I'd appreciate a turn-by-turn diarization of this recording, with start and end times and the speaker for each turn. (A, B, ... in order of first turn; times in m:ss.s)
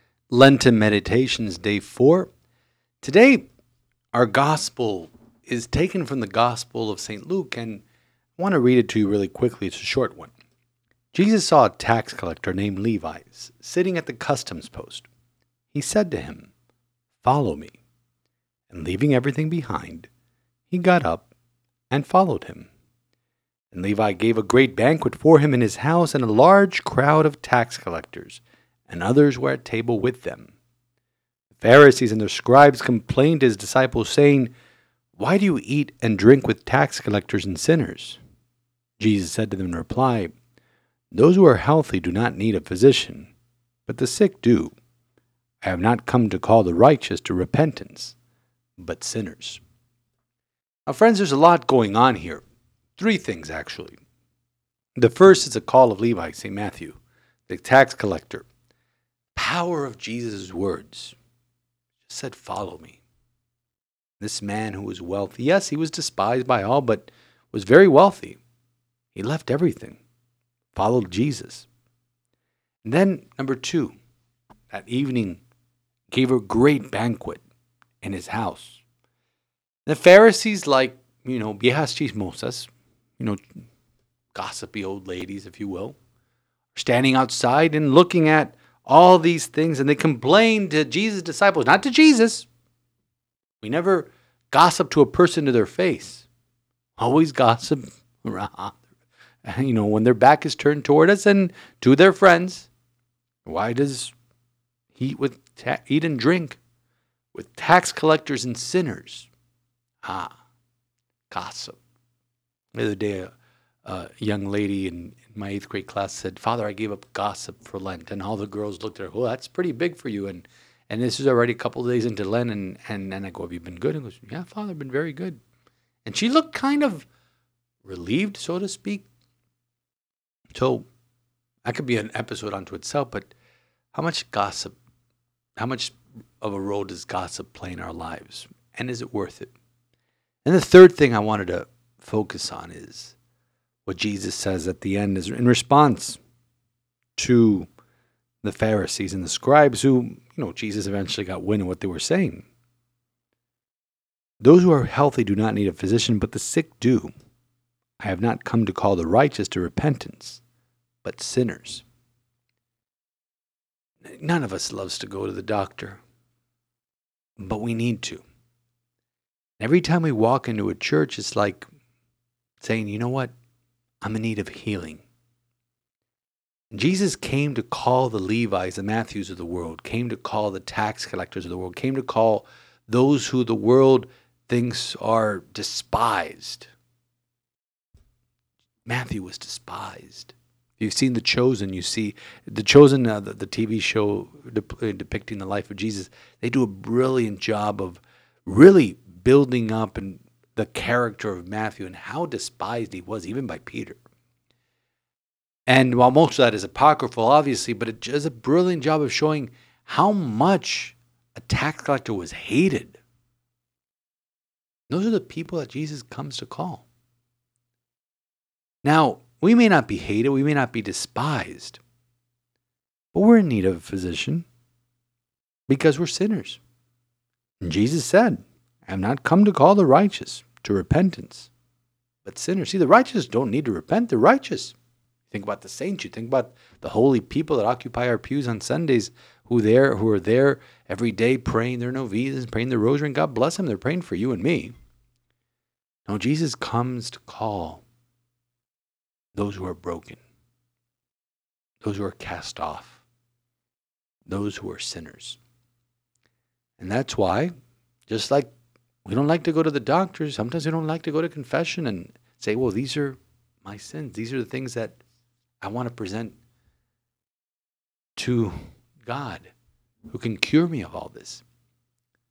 0:00.3-0:02.3 A
0:03.0-0:03.5 A
0:04.1-0:07.8 A
0:08.4-0:10.3 A
0:11.1-0:15.1 A
0:15.7-0:16.5 A
0:17.2-0:17.8 A
0:18.7-0:20.1 A
0:20.7-0:21.3 A
0:21.9-0:22.7 A
0:23.7-0:30.5 A
0:31.6-0:34.5 A
0:35.2-0:38.2 A
0:39.0-0:40.4 A
0:41.1-0:43.3 A
0:43.9-0:44.8 A
0:45.6-0:48.2 A
0:48.8-0:49.6 A
0:50.9-0:52.4 A
0:53.0-0:54.0 A
0:55.0-0:58.5 A
0:59.4-1:01.2 A
1:02.0-1:03.0 A
1:04.2-1:08.4 A
1:09.1-1:10.0 A
1:10.7-1:11.7 A
1:12.8-1:14.0 A
1:14.7-1:15.4 A
1:16.1-1:17.4 A
1:18.0-1:18.8 A
1:19.9-1:23.4 A
1:24.3-1:26.0 A
1:26.7-1:32.5 A
1:33.6-1:36.3 A
1:37.0-1:38.8 A
1:39.4-1:42.7 A
1:43.5-1:44.1 A
1:44.9-1:46.6 A
1:47.3-1:49.3 A
1:50.0-1:50.4 A
1:51.3-1:51.8 A
1:52.7-1:53.3 A
1:53.8-2:05.4 A
2:06.0-2:07.1 A
2:07.8-2:09.1 A
2:10.6-2:10.9 A
2:11.6-2:13.3 A
2:13.9-2:14.8 A
2:15.6-2:19.5 A
2:20.4-2:23.2 A
2:23.9-2:26.2 A
2:27.2-2:27.7 A
2:28.4-2:32.5 A
2:34.4-2:37.1 A
2:38.0-2:40.4 A
2:41.0-2:41.8 A
2:44.1-2:46.0 A
2:47.4-2:48.2 A
2:49.6-2:51.6 A
2:52.6-2:53.3 A
2:54.0-2:55.0 A
2:56.7-3:06.7 A
3:08.9-3:24.0 A
3:25.7-3:33.0 A
3:34.9-3:36.9 A
3:38.8-3:41.8 A
3:43.1-3:44.5 A
3:45.7-3:46.6 A
3:47.6-3:51.5 A
3:52.2-3:54.8 A
3:55.3-4:04.7 A
4:06.1-4:07.8 A
4:09.3-4:10.2 A
4:11.8-4:13.0 A
4:14.3-4:15.4 A
4:16.8-4:17.5 A
4:18.1-4:18.5 A
4:19.0-4:25.0 A
4:25.6-4:26.4 A
4:28.2-4:29.5 A
4:30.1-4:31.4 A